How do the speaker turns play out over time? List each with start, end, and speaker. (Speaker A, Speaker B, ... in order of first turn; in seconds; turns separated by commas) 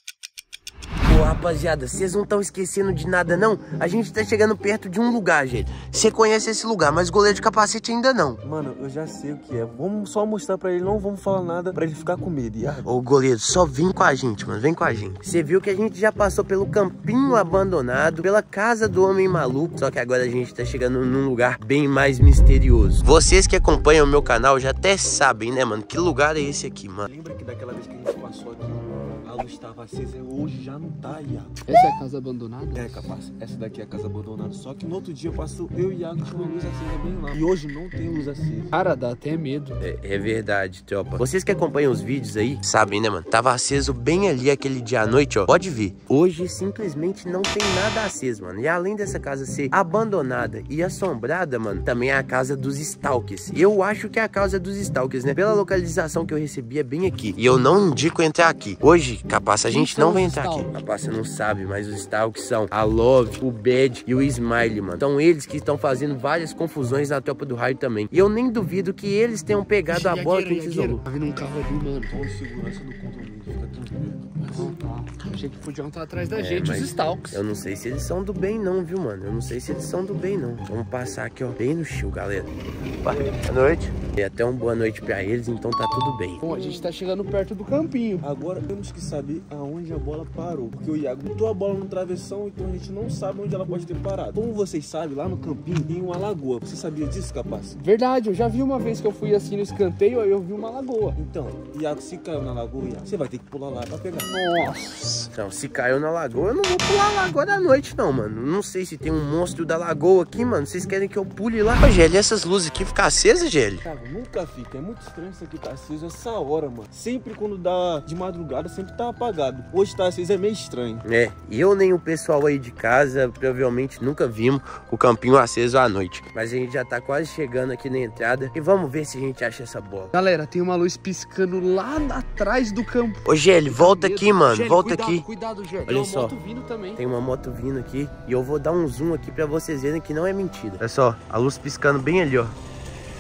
Speaker A: 1.0-8.4, Speaker B: 8.4-12.9, Speaker A: 12.8-27.1, Speaker B: 27.1-31.6, Speaker C: 31.6-33.1, Speaker B: 32.7-38.7, Speaker C: 38.7-39.8, Speaker A: 39.8-71.0, Speaker C: 59.6-60.7, Speaker C: 69.9-72.2, Speaker B: 72.1-74.7, Speaker C: 74.5-77.4, Speaker A: 76.3-82.5, Speaker A: 83.0-86.4, Speaker B: 83.1-83.4, Speaker C: 86.4-88.2, Speaker B: 88.2-97.8, Speaker C: 97.8-101.2, Speaker B: 101.2-104.3, Speaker C: 104.2-105.3, Speaker A: 105.3-113.8, Speaker B: 113.8-121.0, Speaker A: 121.0-130.1, Speaker C: 130.1-137.0, Speaker A: 133.2-135.2, Speaker A: 135.9-136.3, Speaker A: 137.0-142.5